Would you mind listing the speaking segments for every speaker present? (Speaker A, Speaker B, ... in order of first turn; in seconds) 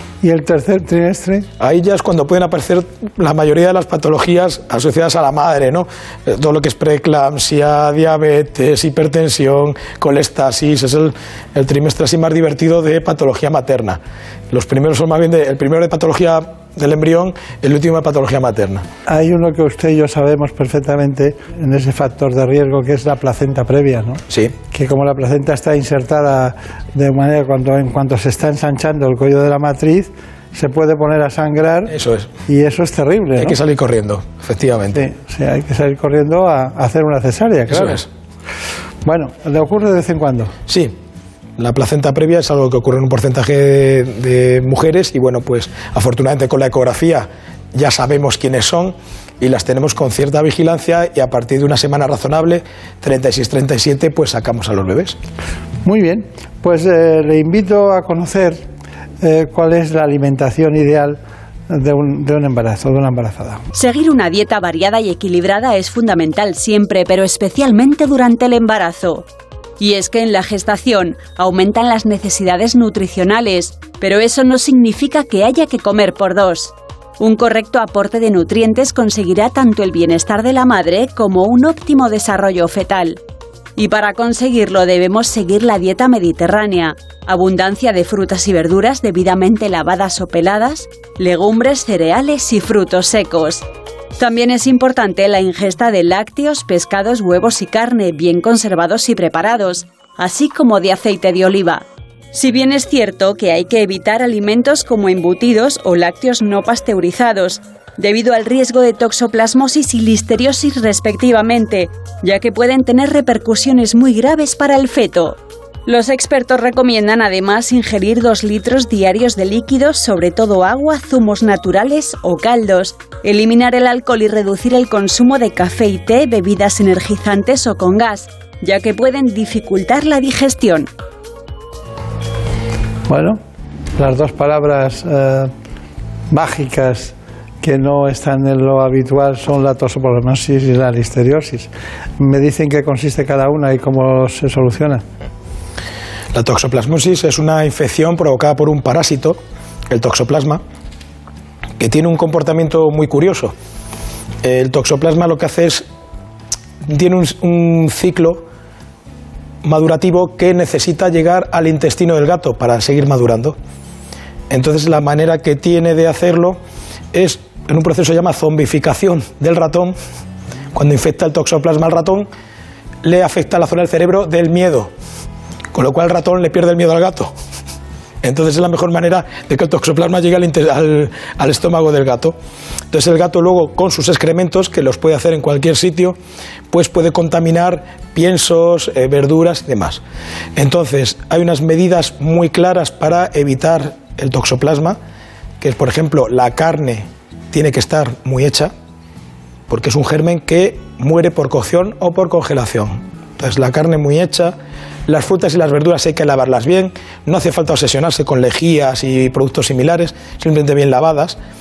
Speaker A: 0.2-1.5, 19.1-31.9, 32.5-33.5, 34.9-38.0, 39.0-40.5, 55.8-58.7, 59.2-63.6, 133.1-133.4, 133.9-135.5, 136.3-145.0
Speaker B: 1.6-14.0, 14.5-18.8, 24.3-24.5, 31.9-32.3, 33.4-35.0, 37.7-38.0, 40.7-40.9, 41.6-55.2, 146.3-149.4, 149.9-150.6, 151.8-153.5, 154.4-155.8, 156.8-158.4, 159.6-163.6, 164.5-166.6, 167.1-170.0, 170.7-172.3, 173.0-174.9, 175.7-177.3, 178.2-182.4, 182.9-186.2, 186.7-190.0, 190.6-195.0, 195.6-198.7, 199.7-204.6, 205.1-211.4
Speaker C: 63.7-69.3, 69.8-83.2, 83.8-93.7, 94.2-130.9